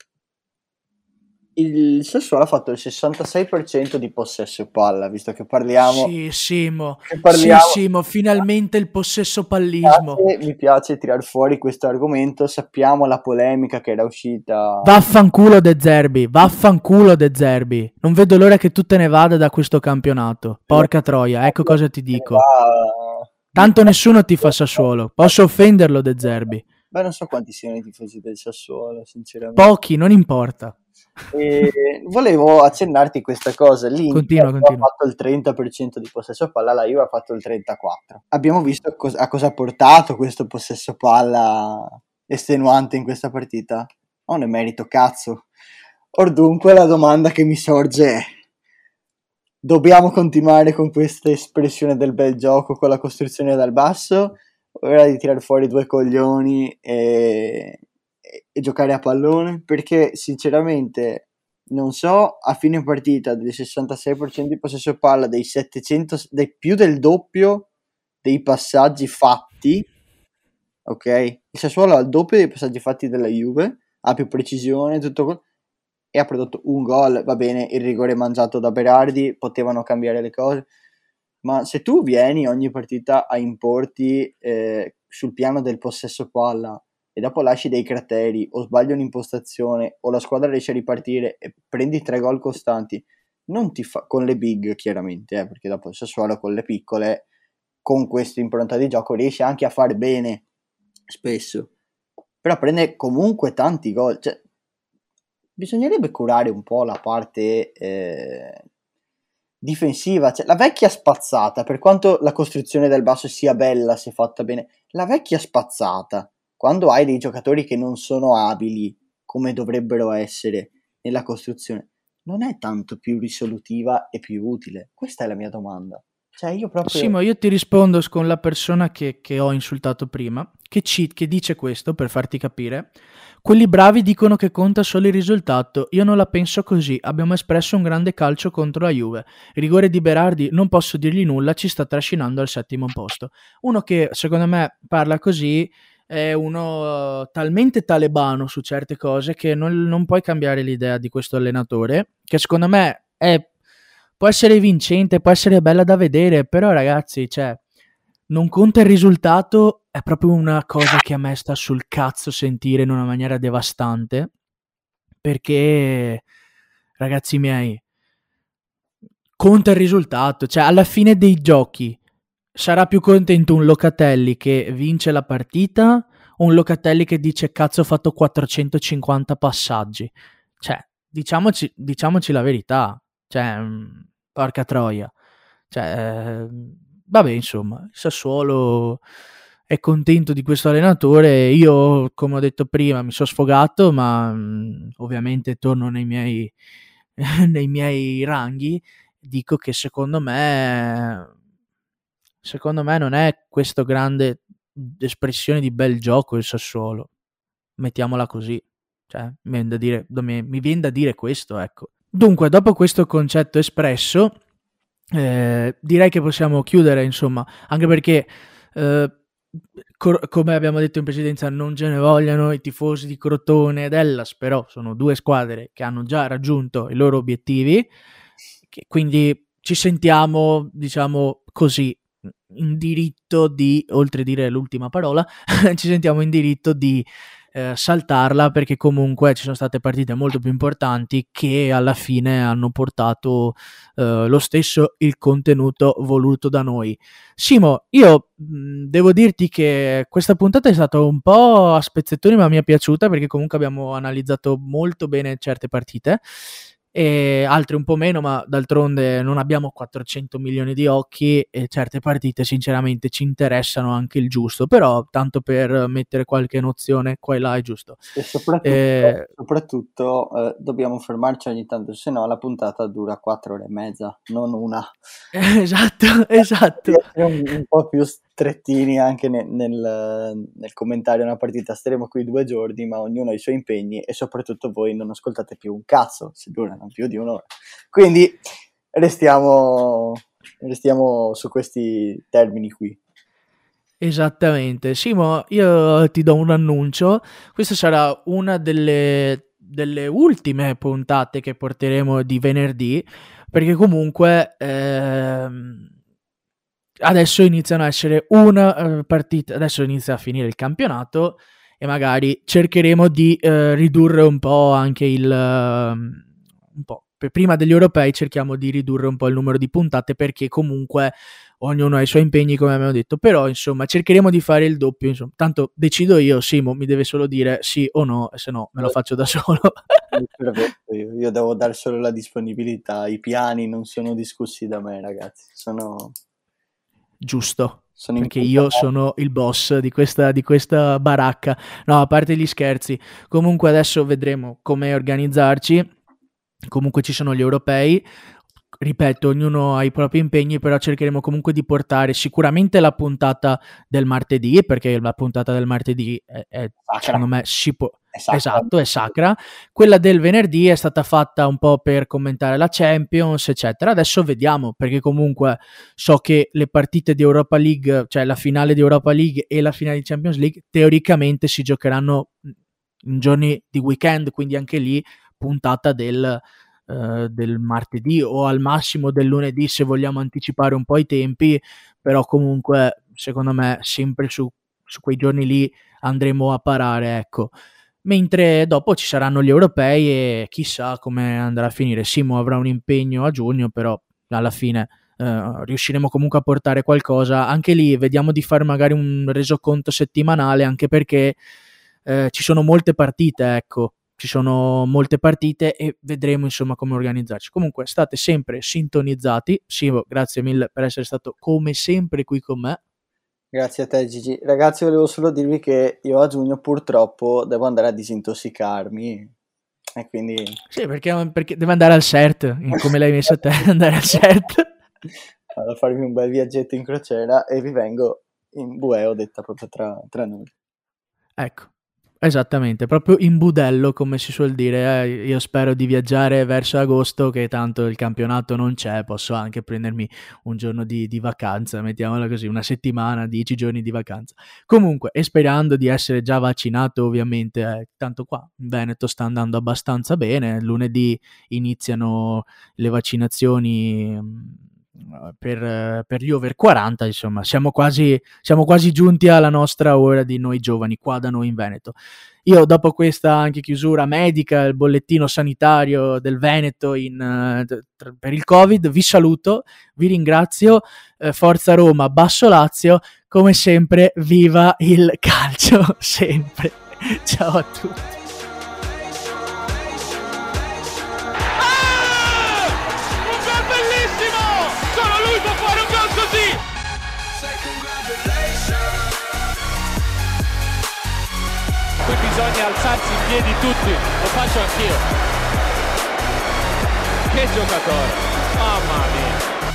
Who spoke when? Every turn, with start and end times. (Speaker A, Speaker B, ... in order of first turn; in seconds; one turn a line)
Speaker A: 1.6-6.1
Speaker B: 5.8-10.3
Speaker A: 7.1-7.8
Speaker A: 9.8-14.9
Speaker B: 14.8-22.4
Speaker A: 21.4-23.9
Speaker B: 23.6-26.6
Speaker A: 26.9-29.6
Speaker B: 29.6-30.8
Speaker A: 31.3-45.5
Speaker B: 34.1-34.9
Speaker A: 46.1-48.2
Speaker A: 49.6-67.7
Speaker A: 68.2-69.9
Speaker A: 70.9-75.4
Speaker A: 76.1-80.7
Speaker A: 81.4-97.2
Speaker A: 97.8-100.4
Speaker A: 101.1-101.7
Speaker A: 102.4-104.4
Speaker A: 105.6-108.6
Speaker A: 109.6-127.1
Speaker B: 126.8-132.9
Speaker B: 133.4-153.5
Speaker B: 154.2-157.6
Speaker B: 158.3-164.3
Speaker B: 165.2-166.2
Speaker B: 167.0-167.8
Speaker B: 169.4-172.0
Speaker B: 172.6-185.1
Speaker B: 185.7-189.0
Speaker B: 189.7-196.5
Speaker B: 197.2-201.3
Speaker B: 202.4-207.1
Speaker B: 207.8-214.3
Speaker B: 215.1-219.2
Speaker B: 219.9-227.9
Speaker B: 228.7-256.2
Speaker B: 256.9-268.0
Speaker A: 268.1-274.9
Speaker B: 268.6-269.3
Speaker B: 275.3-277.1
Speaker A: 276.8-288.4
Speaker A: 288.9-293.0
Speaker B: 294.0-305.9
Speaker B: 307.0-330.0
Speaker A: 330.1-336.1
Speaker B: 337.2-345.9
Speaker A: 338.0-338.9
Speaker B: 346.7-348.0
Speaker B: 348.8-372.5
Speaker A: 356.9-357.2
Speaker A: 358.1-359.1
Speaker B: 373.1-387.5
Speaker B: 388.1-401.4
Speaker B: 402.1-412.8
Speaker A: 413.5-419.3
Speaker A: 419.9-420.6
Speaker B: 420.7-424.7
Speaker A: 425.5-430.5
Speaker B: 431.4-431.7
Speaker B: 432.2-478.1
Speaker C: 481.6-486.6
Speaker C: 487.3-489.2
Speaker C: 492.0-495.1
Speaker C: 497.3-499.4